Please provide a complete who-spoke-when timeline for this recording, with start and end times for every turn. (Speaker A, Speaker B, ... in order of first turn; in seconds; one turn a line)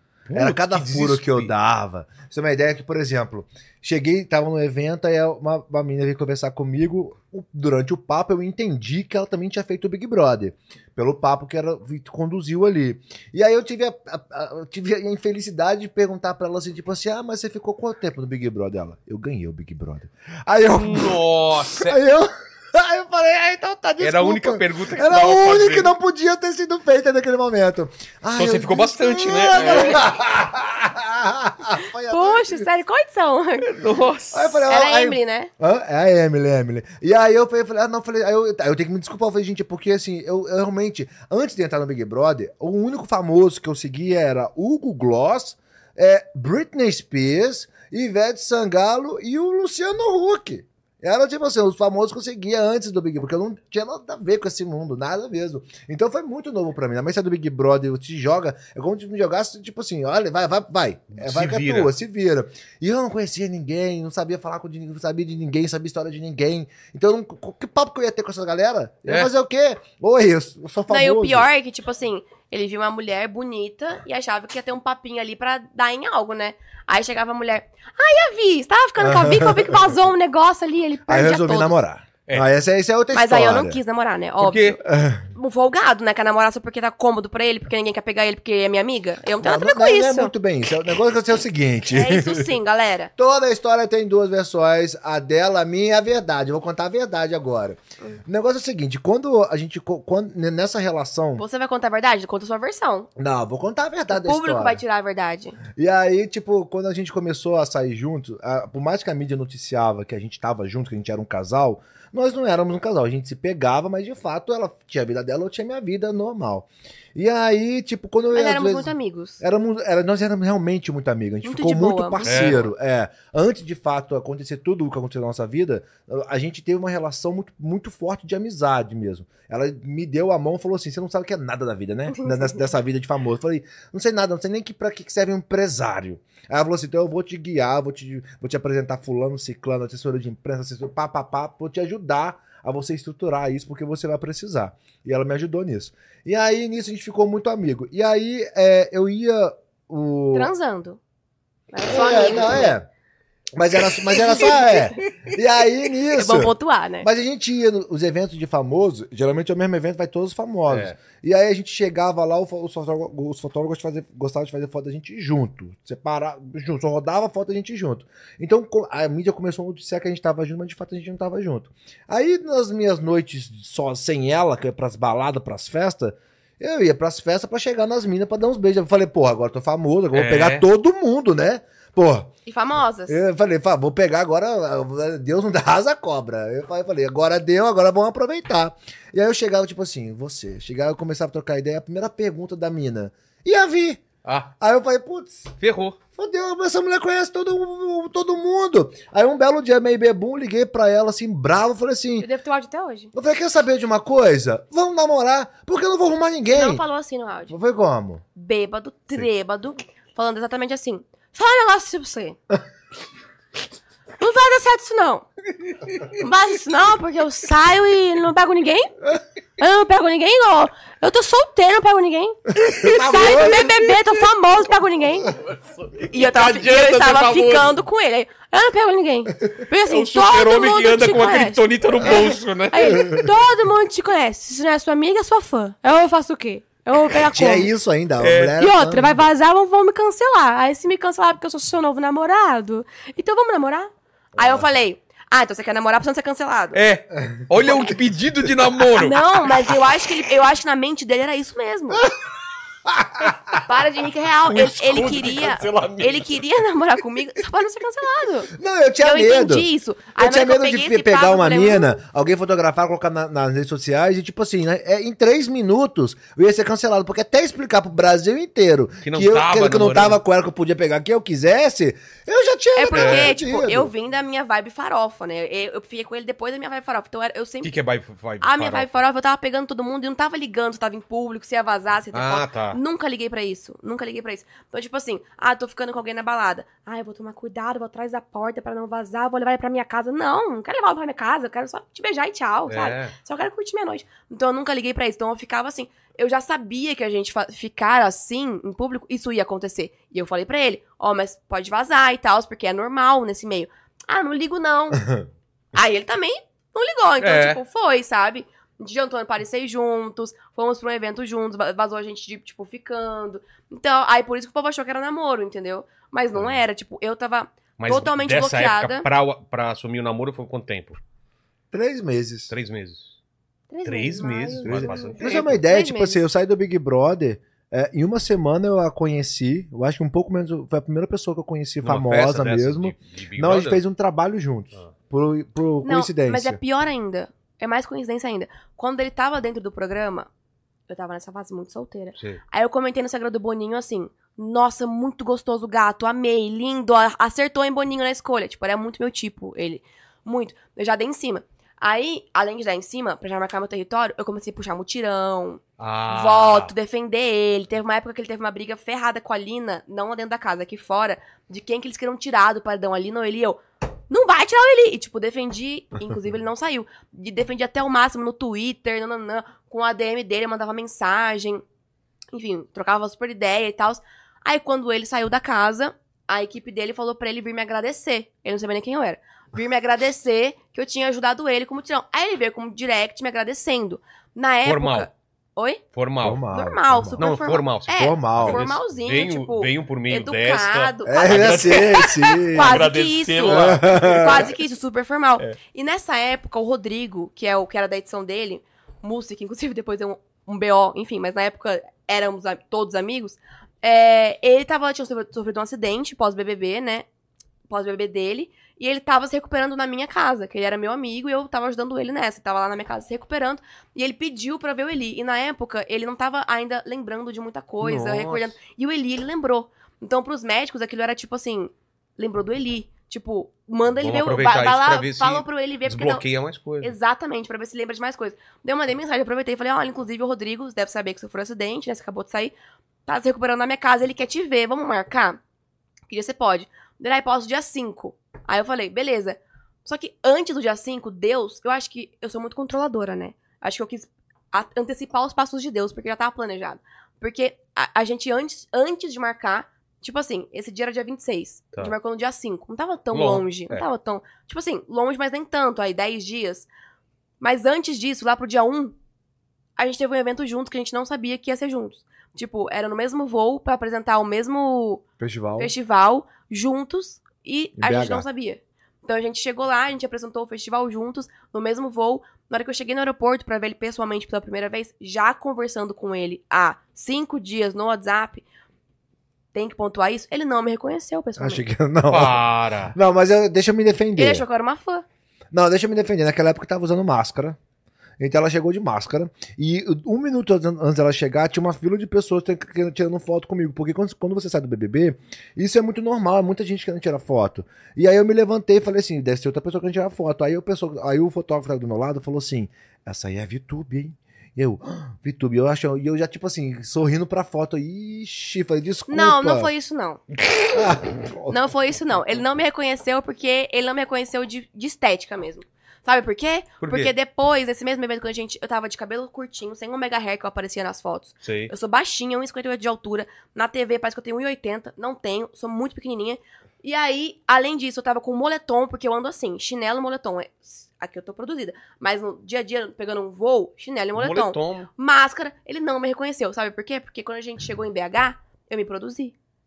Speaker A: 0.3-1.5
Speaker B: 0.3-32.7
Speaker A: 20.7-22.0
Speaker A: 24.0-25.9
Speaker A: 28.3-30.1
Speaker C: 29.6-30.0
Speaker C: 32.1-33.7
Speaker A: 33.6-34.5
Speaker B: 34.3-71.4
Speaker C: 34.6-35.5
Speaker A: 61.1-61.9
Speaker C: 70.9-81.7
Speaker B: 79.0-79.9
Speaker B: 81.1-83.8
Speaker C: 83.1-84.8
Speaker A: 84.4-84.8
Speaker B: 84.8-85.3
Speaker C: 85.3-90.3
Speaker B: 89.4-92.5
Speaker C: 91.9-93.1
Speaker B: 93.2-101.4
Speaker C: 101.4-103.1
Speaker B: 103.2-104.8
Speaker C: 104.1-105.6
Speaker B: 105.7-150.5
Speaker C: 118.3-119.4
Speaker C: 121.4-122.5
Speaker A: 122.2-122.7
Speaker C: 132.1-132.6
Speaker C: 150.3-151.0
Speaker C: 151.7-152.7
Speaker B: 151.9-152.9
Speaker B: 153.6-182.3
Speaker C: 154.3-155.0
Speaker C: 156.1-157.1
Speaker A: 160.7-160.9
Speaker A: 180.1-180.6
Speaker C: 182.5-183.2
Speaker B: 183.1-194.1
Speaker A: 194.2-194.5
Speaker B: 194.6-195.5
Speaker A: 195.6-196.0
Speaker B: 196.2-202.3
Speaker C: 202.2-203.1
Speaker B: 203.1-206.8
Speaker C: 206.5-207.6
Speaker B: 207.5-208.2
Speaker C: 208.3-212.4
Speaker C: 214.2-215.3
Speaker C: 216.2-218.9
Speaker C: 219.6-225.3
Speaker A: 222.7-223.6
Speaker B: 222.8-223.7
Speaker A: 225.4-227.7
Speaker C: 226.1-237.7
Speaker A: 229.9-233.2
Speaker B: 237.3-239.2
Speaker A: 238.2-238.5
Speaker C: 238.6-246.8
Speaker A: 246.7-249.2
Speaker B: 247.2-247.9
Speaker C: 249.0-252.0
Speaker B: 251.9-252.3
Speaker B: 252.8-253.6
Speaker C: 253.7-258.5
Speaker A: 254.5-256.4
Speaker B: 258.5-273.9
Speaker C: 259.0-262.0
Speaker A: 269.0-270.2
Speaker C: 272.8-277.7
Speaker A: 272.9-273.3
Speaker A: 277.6-279.0
Speaker C: 278.4-305.0
Speaker A: 282.1-282.8
Speaker A: 292.7-293.1
Speaker B: 304.9-305.2
Speaker C: 305.7-319.1
Speaker A: 307.2-307.6
Speaker A: 317.8-321.0
Speaker B: 321.7-322.5
Speaker A: 322.5-323.1
Speaker C: 323.7-326.3
Speaker A: 323.8-325.6
Speaker B: 324.6-336.6
Speaker A: 331.8-333.8
Speaker C: 335.8-340.3
Speaker C: 340.9-371.6
Speaker A: 342.1-342.4
Speaker A: 355.8-356.7
Speaker C: 372.3-385.8
Speaker A: 384.6-385.1
Speaker A: 385.9-386.4
Speaker B: 386.2-387.2
Speaker C: 386.5-407.1
Speaker A: 387.2-394.4
Speaker B: 387.9-388.6
Speaker B: 391.1-392.9
Speaker B: 393.4-394.5
Speaker C: 407.7-426.2
Speaker A: 417.8-418.6
Speaker A: 424.0-426.9
Speaker C: 426.8-432.5
Speaker C: 433.1-435.4
Speaker C: 436.1-456.7
Speaker A: 453.1-453.9
Speaker C: 457.4-458.9
Speaker C: 459.8-465.0
Speaker B: 465.2-465.7
Speaker C: 465.6-478.4
Speaker B: 467.8-468.2
Speaker C: 479.5-481.6
Speaker B: 481.4-484.4
Speaker A: 482.1-482.9
Speaker C: 484.2-485.0
Speaker B: 485.5-487.6
Speaker B: 488.2-509.7
Speaker C: 509.1-510.2
Speaker B: 510.7-511.7
Speaker C: 511.5-539.3
Speaker A: 516.8-517.1
Speaker A: 521.4-521.7
Speaker A: 534.1-534.9